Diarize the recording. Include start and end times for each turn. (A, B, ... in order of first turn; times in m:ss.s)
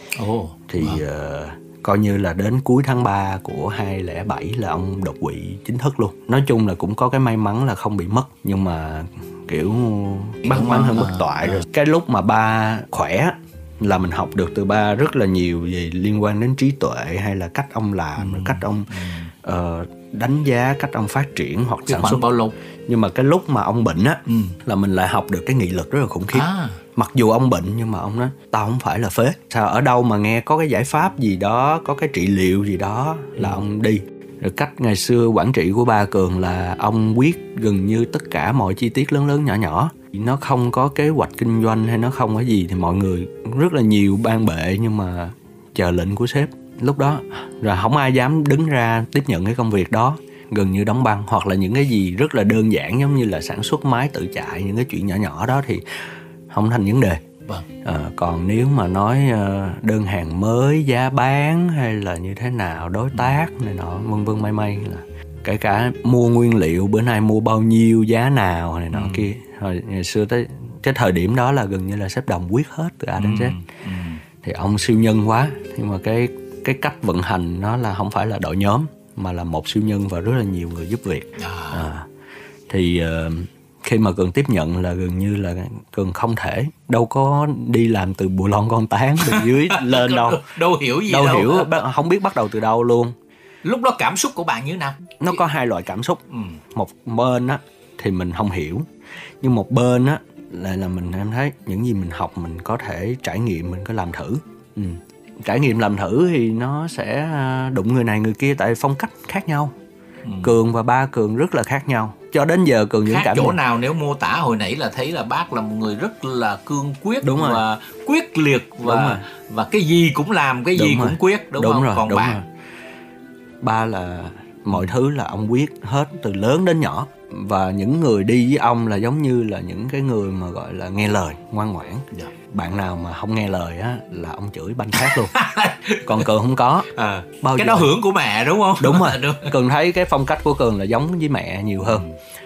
0:00.2-0:01.0 A
0:00.7-0:22.2 B
0:10.5-0:11.6 A
0:18.2-0:19.3 A
0:21.9-0:22.5 A
0:22.9-0:55.8 B
0:24.3-0:24.6 A
0:26.3-0:26.8 A
0:56.5-0:57.2 B
0:57.8-1:13.6 B
1:08.9-1:09.3 A
1:13.2-1:14.2 A
1:14.4-1:22.1 B
1:21.4-1:21.9 A
1:22.7-1:30.4 B
1:29.2-1:31.7 A
1:31.1-1:33.1 B
1:33.6-1:35.2 A
1:35.2-1:36.2 B
1:36.3-1:36.6 A
1:36.7-1:38.9 B
1:39.4-1:49.8 B
1:50.2-1:50.6 A
1:50.4-1:53.6 B
1:53.0-2:02.4 A
1:57.2-1:57.6 B
1:58.8-1:59.2 B
2:00.8-2:02.5 B
2:03.6-2:15.3 B
2:15.0-2:16.3 A
2:16.0-2:16.9 B
2:16.9-2:19.5 A
2:17.4-2:17.9 B
2:18.8-2:22.1 B
2:21.9-2:22.1 A